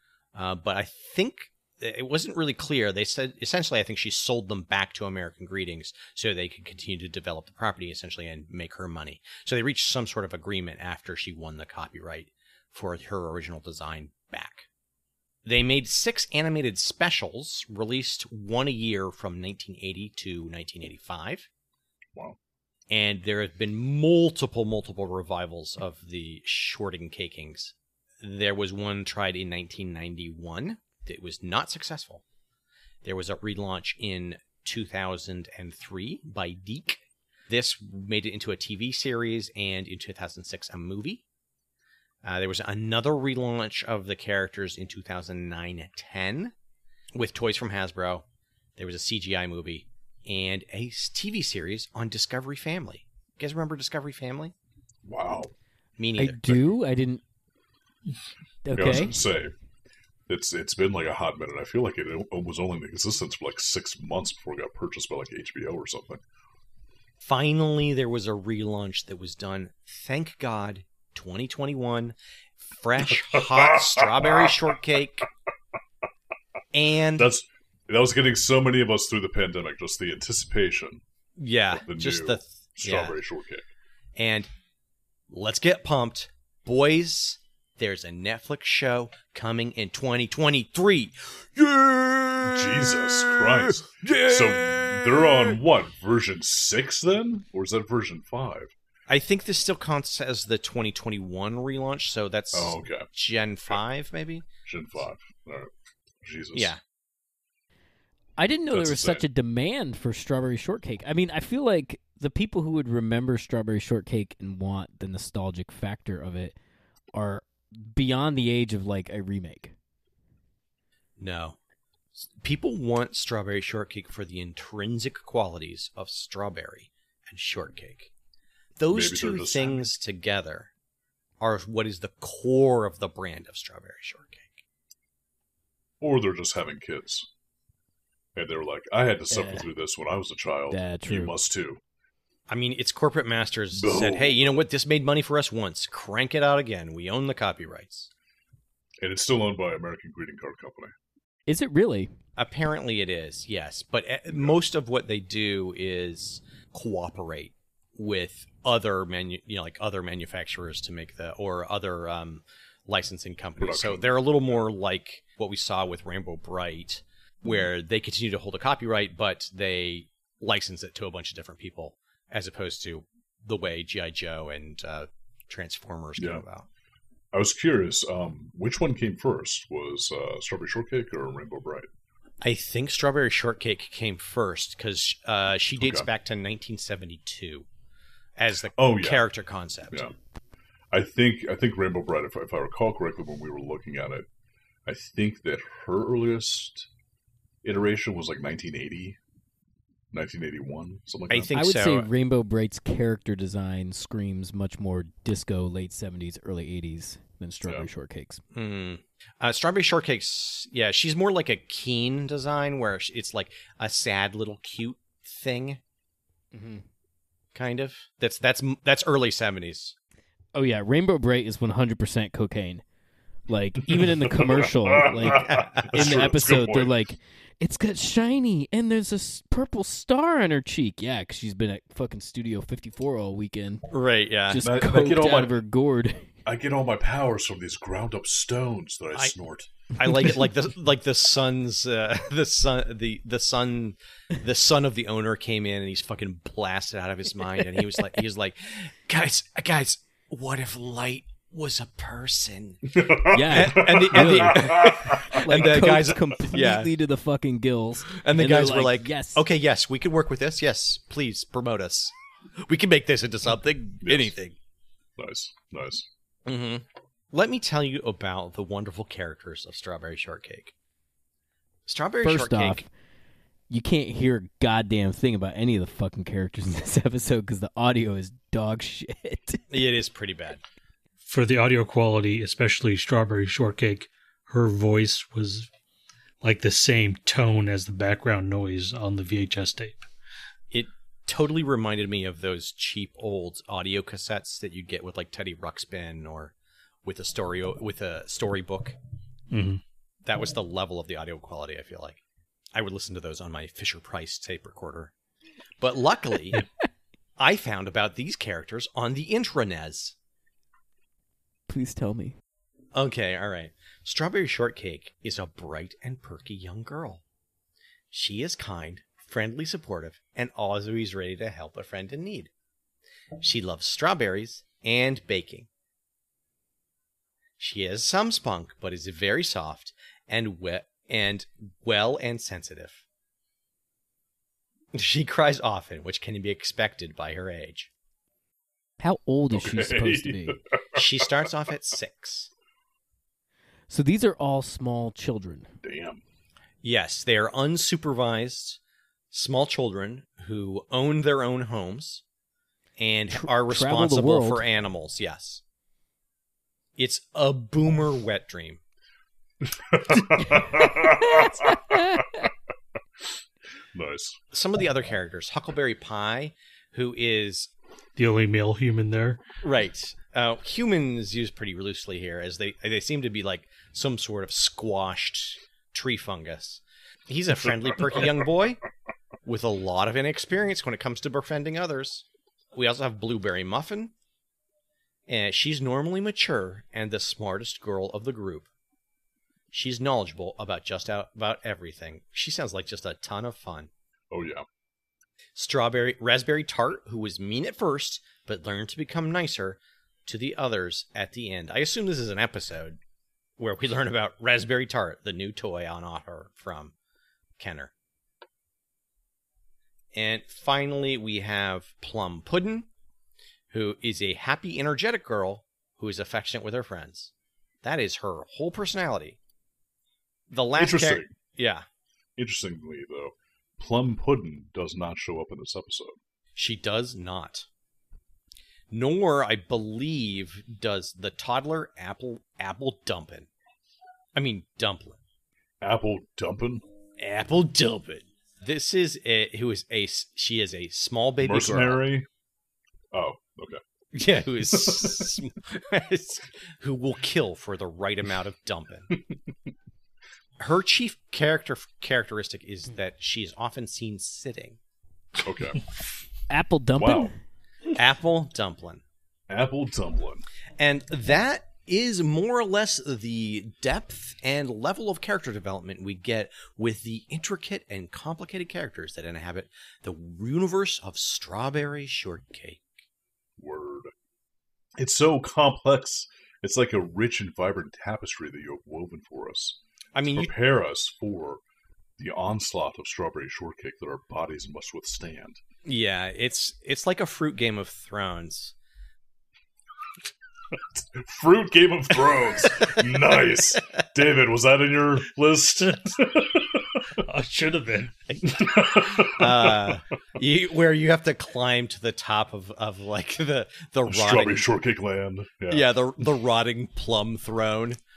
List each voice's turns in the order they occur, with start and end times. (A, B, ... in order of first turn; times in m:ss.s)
0:00.3-0:14.6 A
0:15.4-0:21.5 A
0:22.9-0:32.2 A
0:33.0-0:41.2 A
0:42.2-0:46.5 A
0:47.1-0:48.2 A
0:48.8-0:54.5 A
0:55.0-0:55.5 B
0:56.0-0:56.6 A
0:56.2-0:57.2 C
0:58.6-0:59.2 C
0:58.7-0:59.5 B
1:00.3-1:06.2 B
1:07.2-1:15.3 A
1:13.3-1:14.5 B
1:16.7-1:17.3 A
1:17.2-1:21.0 B
1:21.4-1:23.2 A
1:21.7-1:23.6 B
1:24.2-1:24.5 A
1:25.3-1:32.7 A
1:32.4-1:38.7 B
1:34.0-1:34.3 A
1:39.1-1:44.4 A
1:42.5-1:43.1 B
1:44.6-1:45.7 B
1:46.2-1:46.7 B
1:46.5-1:46.8 A
1:48.4-1:56.6 C
1:48.7-1:49.2 B
1:57.1-1:59.7 C
2:01.2-2:01.6 A
2:02.3-2:08.1 A
2:08.8-2:10.7 A
2:08.9-2:09.9 B
2:11.4-2:14.6 A
2:16.0-2:17.3 B
2:18.4-2:21.8 B
2:19.3-2:19.7 C
2:20.7-2:21.3 C
2:22.5-2:28.1 A
2:23.7-2:24.6 B
2:29.0-2:30.9 B
2:31.5-2:32.1 C
2:32.4-2:56.7 A
2:34.3-2:34.6 B
2:43.6-2:44.6 B
2:56.2-2:56.4 B
2:57.3-3:01.9 B
3:02.4-3:07.6 A
3:05.8-3:06.1 B
3:08.4-3:10.1 A
3:08.7-3:09.2 B
3:10.9-3:14.3 B
3:14.8-3:16.9 B
3:17.6-3:19.2 B
3:20.1-3:21.5 B
3:21.3-3:22.1 A
3:21.5-3:28.4 C
3:28.5-3:35.8 A
3:36.5-3:36.8 C
3:37.5-3:39.9 A
3:40.5-3:42.8 C
3:43.5-3:53.9 C
3:43.9-3:46.9 B
3:45.2-3:46.2 A
3:53.9-3:54.6 A
3:54.5-3:56.3 C
3:54.6-3:55.6 B
3:56.4-3:59.7 B
3:59.9-4:16.9 A
4:12.9-4:15.5 B
4:13.3-4:19.4 C
4:18.1-4:24.5 A
4:24.0-4:24.3 B
4:25.2-4:26.1 B
4:26.4-4:30.7 A
4:31.9-4:32.8 A
4:32.2-4:32.8 C
4:33.7-4:39.6 C
4:39.7-4:40.6 A
4:41.2-4:45.7 D
4:46.4-4:50.1 D
4:50.7-4:56.5 A
4:57.0-4:59.0 A
4:59.5-4:59.8 D
5:00.2-5:02.2 A
5:02.7-5:05.1 A
5:05.8-5:06.6 A
5:07.4-5:10.1 A
5:11.7-5:12.4 C
5:12.9-5:17.2 A
5:18.1-5:22.5 A
5:23.4-5:25.7 A
5:27.6-5:33.0 A
5:34.9-5:37.9 A
5:39.0-5:40.6 C
5:39.5-5:41.2 B
5:40.9-5:42.5 A
5:43.9-5:45.7 C
5:45.8-5:46.2 B
5:46.8-5:48.8 A
5:49.3-5:52.2 A
5:53.0-5:55.6 A
5:53.3-5:54.6 C
5:57.0-5:58.8 A
5:59.6-6:02.5 B
6:01.0-6:02.4 C
6:03.9-6:04.4 B
6:04.5-6:07.7 A
6:08.2-6:09.4 D
6:09.6-6:18.8 A
6:19.4-6:24.1 A
6:25.3-6:28.7 A
6:29.7-6:33.9 A
6:34.3-6:34.6 B
6:35.6-6:43.0 A
6:43.6-6:46.9 A
6:47.6-6:47.9 A
6:50.1-6:52.9 A
6:53.7-6:57.3 A
6:57.8-6:59.4 A
7:00.5-7:01.8 A
7:00.8-7:01.3 B
7:02.4-7:06.2 B
7:06.6-7:07.6 A
7:08.9-7:13.5 A
7:14.3-7:15.2 A
7:15.8-7:16.8 B
7:17.2-7:22.0 A
7:21.4-7:22.2 B
7:23.1-7:23.8 B
7:24.1-7:29.1 A
7:24.7-7:25.4 B
7:30.6-7:34.8 A
7:35.4-7:35.8 B
7:36.5-7:37.3 C
7:37.0-7:37.3 B
7:37.9-7:39.0 A
7:39.5-7:40.4 B
7:40.8-7:52.8 A
7:53.6-7:54.1 B
7:55.0-7:59.8 B
8:00.1-8:00.5 A
8:00.3-8:01.6 B
8:02.2-8:05.6 B
8:05.8-8:08.7 A
8:10.9-8:17.2 B
8:12.7-8:14.0 A
8:17.2-8:18.1 D
8:18.3-8:24.7 A
8:18.4-8:19.9 B
8:24.1-8:25.9 B
8:25.7-8:28.0 A